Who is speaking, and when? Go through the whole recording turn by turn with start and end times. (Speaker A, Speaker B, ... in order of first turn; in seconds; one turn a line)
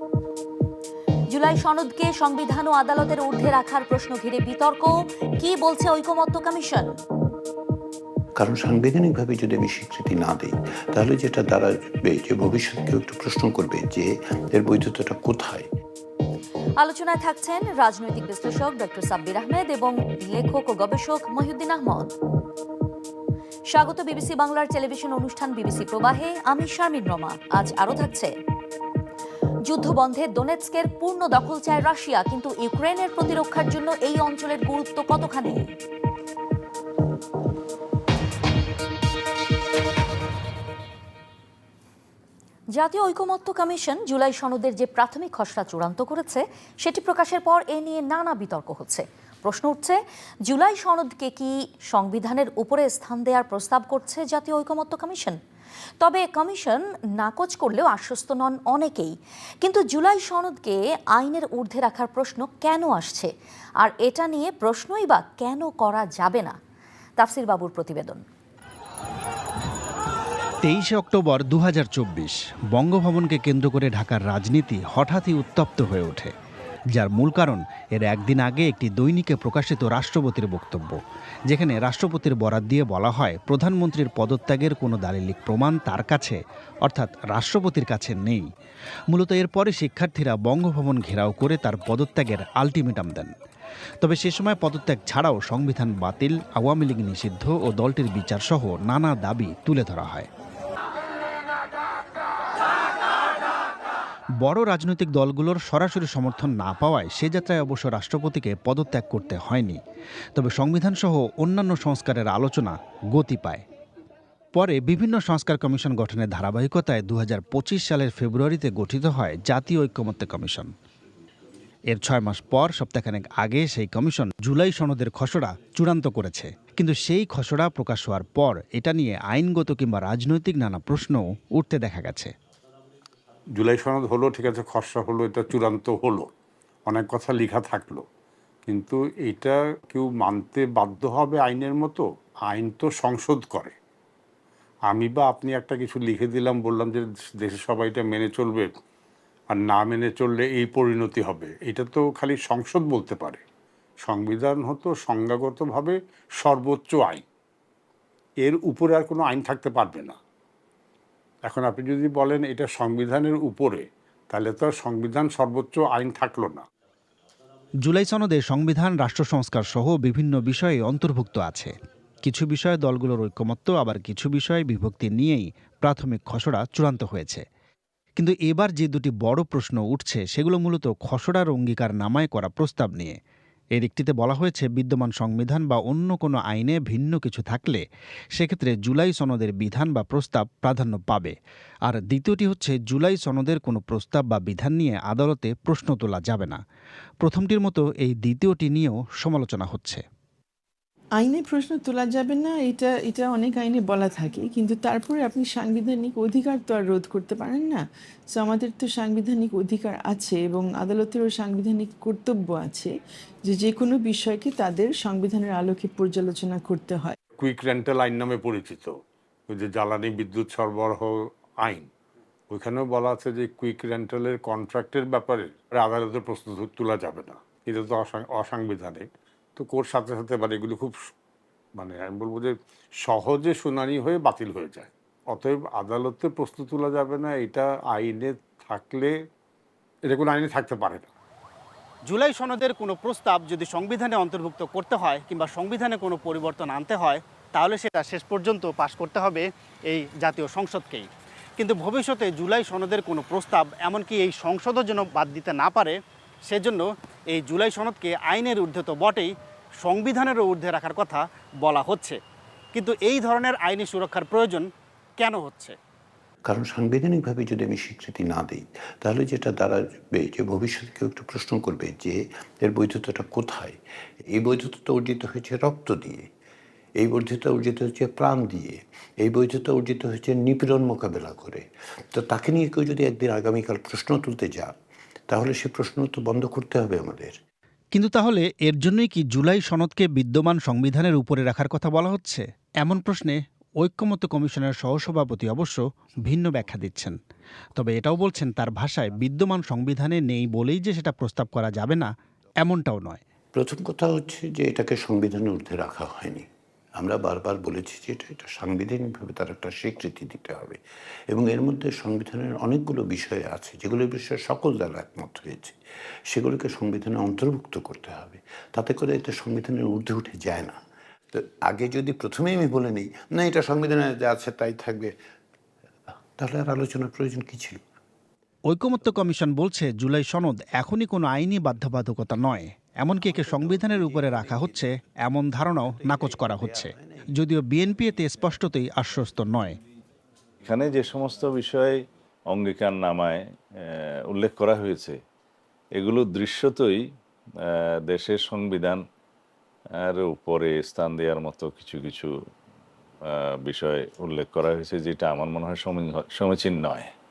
Speaker A: 1.3-6.9
Speaker B: 8.4-15.7
Speaker A: 16.8-22.1
Speaker A: 23.7-28.3
Speaker A: 29.7-35.7
Speaker A: 42.8-55.4
Speaker A: 56.0-66.6
Speaker A: 67.2-68.2
Speaker C: 70.6-76.3
Speaker C: 76.9-88.5
Speaker C: 89.1-93.3
Speaker C: 94.0-100.3
Speaker C: 104.4-109.8
Speaker C: 110.3-113.6
Speaker C: 114.5-120.7
Speaker C: 121.9-132.3
Speaker D: 133.6-136.3
Speaker D: 136.9-138.1
Speaker D: 138.7-143.8
Speaker D: 144.9-148.8
Speaker D: 149.5-153.4
Speaker D: 154.0-157.2
Speaker D: 158.4-160.2
Speaker D: 161.5-166.7
Speaker C: 167.8-177.4
Speaker C: 178.2-183.2
Speaker C: 183.8-187.8
Speaker C: 188.4-191.4
Speaker C: 191.9-196.6
Speaker C: 197.2-200.0
Speaker E: 201.2-212.9
Speaker E: 213.5-217.2
Speaker D: 217.4-221.9
Speaker D: 222.5-231.1
Speaker D: 231.8-239.2
Speaker D: 240.1-241.1
Speaker F: 242.1-251.1
Speaker F: 251.6-256.0
Speaker F: 256.5-262.2
Speaker F: 262.8-264.7
Speaker F: 265.2-265.8
Speaker B: 266.5-273.8
Speaker B: 274.3-276.3
Speaker B: 277.0-284.8
Speaker B: 285.3-287.4
Speaker C: 287.9-297.2
Speaker C: 297.8-302.1
Speaker C: 302.6-303.2
Speaker B: 303.5-306.5
Speaker B: 307.0-310.8
Speaker B: 311.3-315.8
Speaker B: 316.3-320.8
Speaker B: 321.3-325.1
Speaker B: 326.4-327.8
Speaker C: 328.7-339.8
Speaker B: 333.3-334.8
Speaker B: 335.8-337.3
Speaker G: 340.6-342.0
Speaker G: 342.5-345.2
Speaker G: 346.0-347.0
Speaker G: 347.6-349.0
Speaker G: 350.0-352.3
Speaker G: 353.2-357.1